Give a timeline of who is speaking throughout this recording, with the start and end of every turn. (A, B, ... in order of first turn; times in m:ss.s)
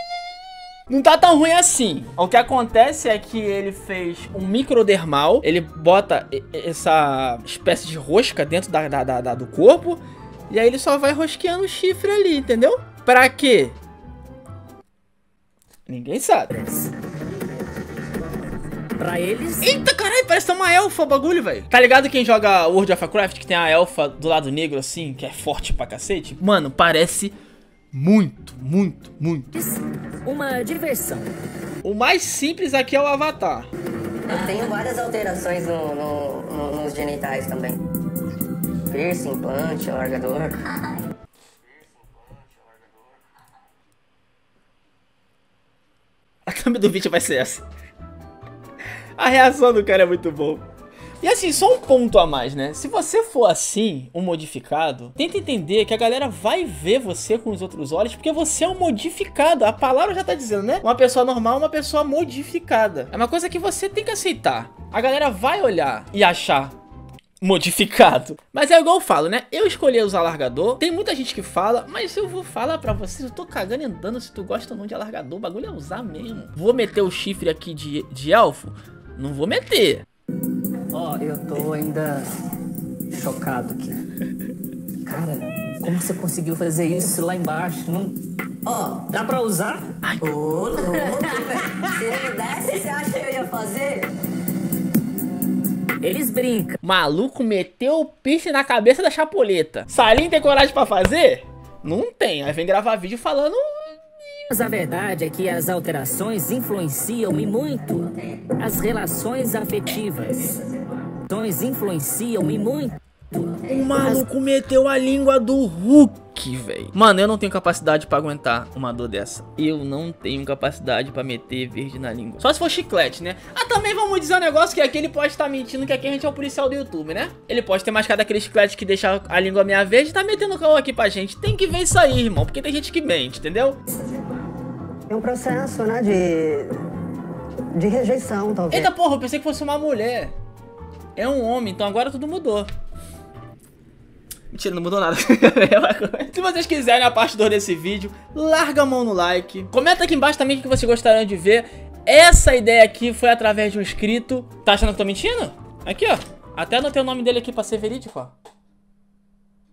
0:00.9-0:13.8 A
0:15.9-0:16.5 A
0:16.5-0:16.9 B
0:19.0-0:19.7 B
0:19.6-0:27.4 A
0:27.9-0:29.5 A
0:29.5-0:31.3 B
0:31.8-0:33.7 A
0:34.3-0:37.8 C
0:34.3-0:34.6 B
0:38.9-0:41.0 C
0:46.4-0:47.6 A
0:49.2-0:50.6 A
0:51.2-1:06.8 A
1:07.4-1:20.0 A
1:20.9-1:22.2 B
1:23.1-1:24.0 B
1:25.0-1:28.2 B
1:28.6-1:29.0 C
1:29.0-1:29.9 B
1:30.0-1:30.4 A
1:30.2-1:34.1 C
1:30.9-1:32.2 B
1:36.0-1:36.8 B
1:36.8-1:43.9 A
1:44.5-1:53.6 B
1:53.6-2:13.8 A
2:15.1-2:16.8 D
2:17.7-2:18.9 D
2:18.7-2:20.3 A
2:21.2-2:22.7 A
2:24.5-2:38.3 A